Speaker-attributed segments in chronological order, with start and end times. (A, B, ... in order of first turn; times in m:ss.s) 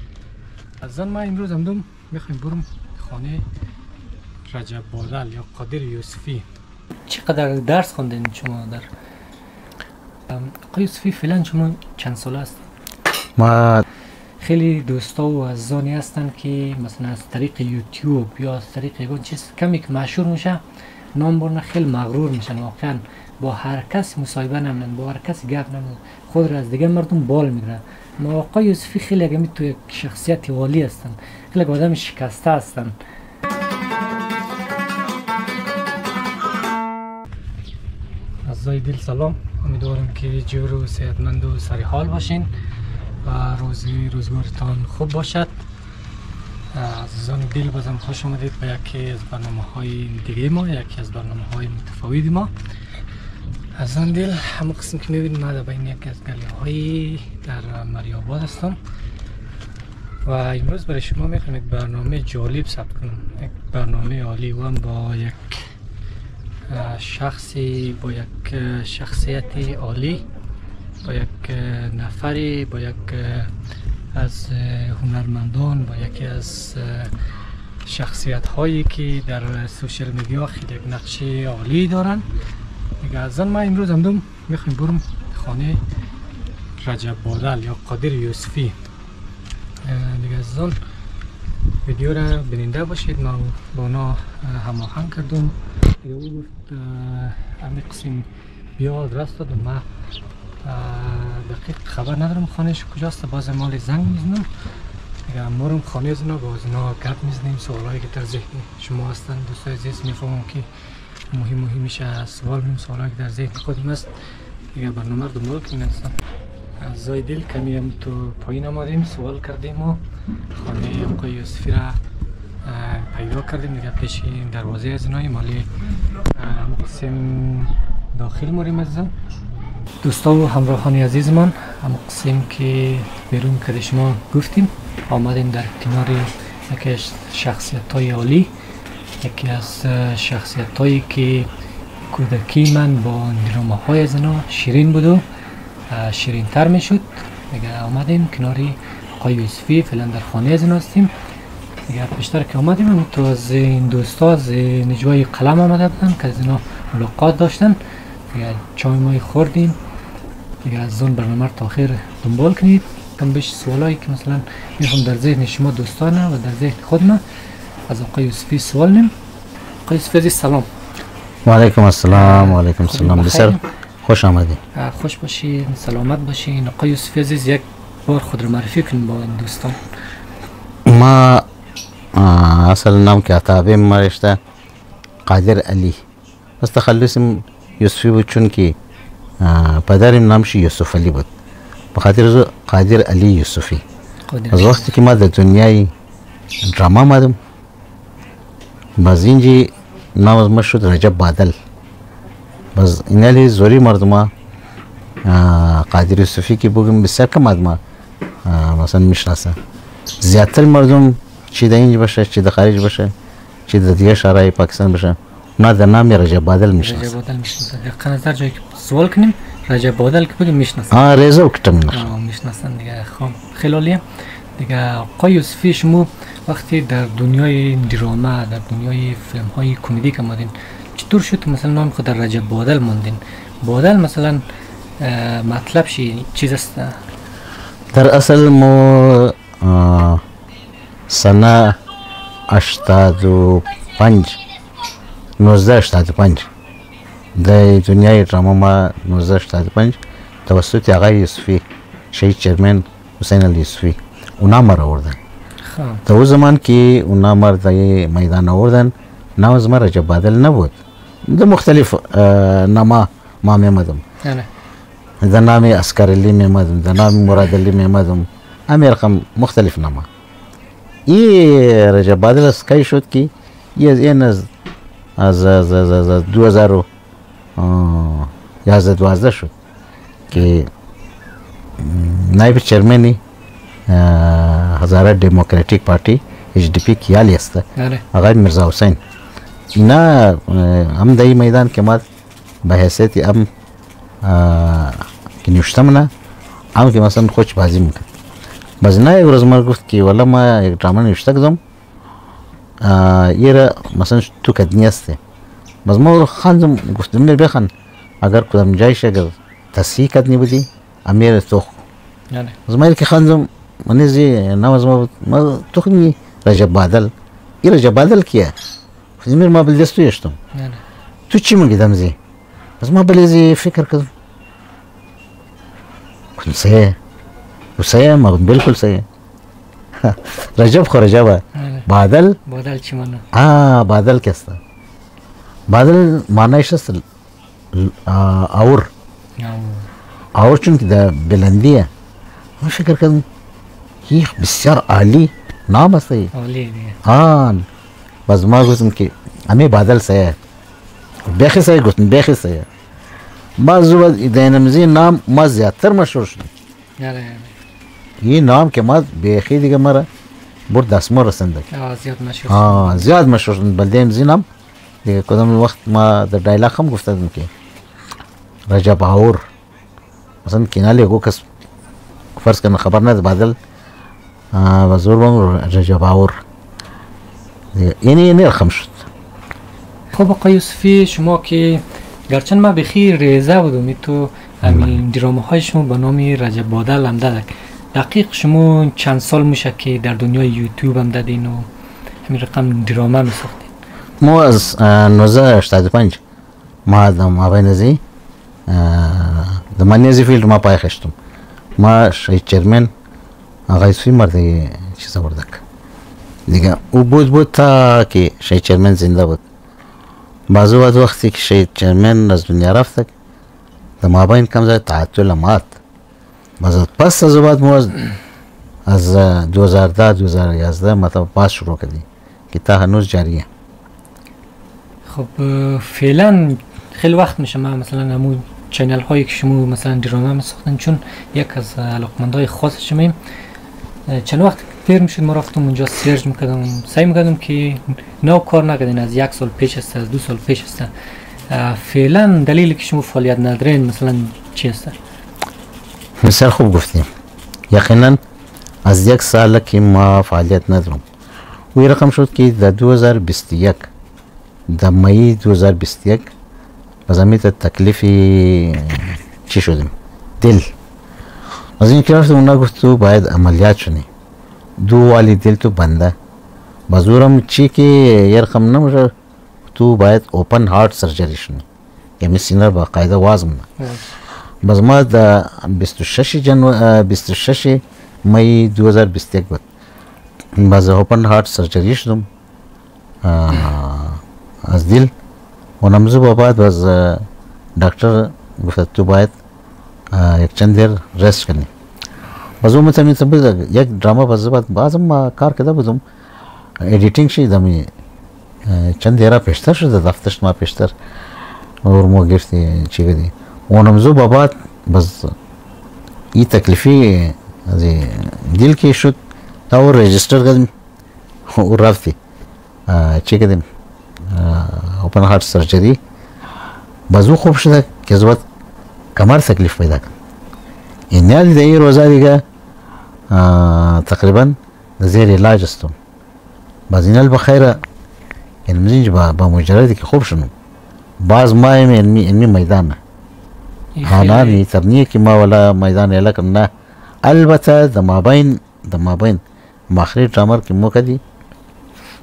0:00.8-0:03.4 A
0:04.5-0:06.4 A
0:07.1-0:08.9 A
0:10.3-0:12.6 A
0:13.4-0:13.8 B
0:14.4-0:20.6 A
0:21.1-0:33.0 A
0:38.4-0:42.5 A
0:43.2-0:45.5 A
0:46.7-0:52.5 A
0:53.8-0:58.8 A
1:00.2-1:05.6 A
1:06.7-1:10.2 A
1:11.0-1:13.5 A
1:14.1-1:17.1 A
1:17.8-1:22.3 A
1:23.0-1:25.8 A
1:26.8-1:28.8 A
1:29.8-1:30.8 A
1:31.8-1:38.3 A
1:38.8-1:39.8 A
1:40.6-1:44.5 A
1:45.3-1:50.7 A
1:51.3-1:54.1 A
1:54.7-1:56.2 A
1:56.8-2:00.0 A
2:00.5-2:02.0 A
2:02.6-2:05.7 A
2:06.3-2:09.1 A
2:10.0-2:18.5 A
2:19.2-2:21.5 A
2:22.1-2:25.2 A
2:25.9-2:31.1 A
2:31.9-2:37.8 A
2:38.3-2:39.8 A
2:40.6-2:47.2 A
2:47.9-2:49.1 A
2:49.8-2:50.7 A
2:51.4-2:54.6 B
2:52.1-2:53.6 A
2:54.7-2:59.8 A
3:00.8-3:01.4 B
3:02.1-3:04.4 B
3:05.2-3:06.0 B
3:06.6-3:08.8 B
3:09.4-3:11.3 B
3:11.9-3:13.8 B
3:14.3-3:14.9 A
3:14.5-3:15.9 B
3:16.6-3:17.4 B
3:19.0-3:21.5 B
3:22.8-3:24.3 B
3:25.2-3:27.8 B
3:28.4-3:29.6 B
3:30.2-3:33.1 B
3:33.7-3:37.1 B
3:36.8-3:41.0 A
3:40.9-3:42.0 B
3:41.9-3:44.0 A
3:44.6-3:54.4 A
3:55.0-3:57.0 A
3:57.9-4:00.2 B
4:01.1-4:01.8 B
4:02.5-4:04.4 B
4:05.4-4:06.5 B
4:07.4-4:15.2 B
4:15.6-4:16.0 A
4:16.0-4:20.8 B
4:21.3-4:24.0 B
4:24.2-4:24.5 A
4:25.2-4:30.1 B
4:31.1-4:34.5 B
4:35.2-4:36.8 B
4:37.6-4:39.5 B
4:40.3-4:40.7 B
4:41.8-4:43.2 B
4:43.9-4:49.0 B
4:47.8-4:48.0 A
4:49.8-4:52.0 B
4:52.6-4:53.5 B
4:54.2-4:56.1 B
4:56.7-4:58.1 B
4:58.8-5:01.6 B
5:02.8-5:05.2 B
5:05.8-5:07.7 B
5:08.2-5:11.8 B
5:12.3-5:12.6 A
5:12.7-5:17.1 B
5:17.6-5:18.5 B
5:19.2-5:20.4 B
5:20.5-5:20.8 A
5:21.3-5:22.2 B
5:22.8-5:24.1 B
5:26.4-5:27.0 B
5:27.8-5:29.0 B
5:30.0-5:32.4 B
5:31.5-5:31.9 A
5:32.4-5:33.2 A
5:33.3-5:34.6 B
5:35.7-5:37.0 B
5:37.7-5:38.9 B
5:39.4-5:39.9 A
5:40.4-5:41.9 B
5:42.6-5:43.2 B
5:44.1-5:46.3 B
5:46.3-5:47.0 A
5:47.0-5:47.6 B
5:48.3-5:50.4 B
5:51.3-5:52.7 B
5:53.6-5:56.5 B
5:57.0-5:57.6 A
5:58.2-6:00.1 B
6:00.7-6:01.6 B
6:01.7-6:03.1 A
6:02.5-6:04.4 B
6:05.0-6:07.5 B
6:08.7-6:09.4 B
6:10.4-6:11.4 B
6:12.4-6:13.6 B
6:14.5-6:16.4 B
6:17.7-6:19.0 B
6:20.1-6:31.7 A
6:24.6-6:25.0 B
6:32.2-6:33.7 A
6:34.2-6:36.2 B
6:36.9-6:38.0 B
6:38.7-6:41.1 B
6:41.8-6:42.9 B
6:43.7-6:45.6 B
6:46.5-6:49.4 B
6:50.5-6:53.1 B
6:54.0-6:55.8 B
6:56.6-6:58.0 B
6:58.9-7:03.5 B
7:05.1-7:13.2 A
7:14.1-7:20.9 A
7:21.5-7:24.9 A
7:26.2-7:27.1 B
7:27.7-7:28.2 B
7:28.8-7:31.0 B
7:31.7-7:33.9 B
7:34.7-7:36.3 B
7:37.1-7:40.7 B
7:41.8-7:44.1 B
7:44.8-7:46.1 B
7:46.9-7:49.1 B
7:49.7-7:51.6 B
7:52.2-7:53.6 B
7:53.8-7:54.1 A
7:54.6-7:59.6 B
8:00.6-8:02.3 B
8:03.2-8:05.1 B
8:05.8-8:07.2 B
8:07.8-8:09.3 B
8:10.1-8:11.7 B
8:12.6-8:16.0 B
8:16.8-8:17.9 B
8:18.6-8:20.9 B
8:21.8-8:25.3 B
8:26.3-8:29.2 B
8:29.7-8:30.7 B
8:31.5-8:32.2 B
8:32.9-8:33.6 B
8:34.3-8:36.0 B
8:37.1-8:38.4 B
8:39.2-8:40.1 B
8:41.1-8:42.4 B
8:43.3-8:45.9 B
8:46.9-8:47.8 B
8:48.7-8:50.5 B
8:51.2-8:53.0 B
8:53.9-8:54.6 A
8:54.0-8:56.7 B
8:57.2-8:59.4 B
8:59.9-9:01.2 B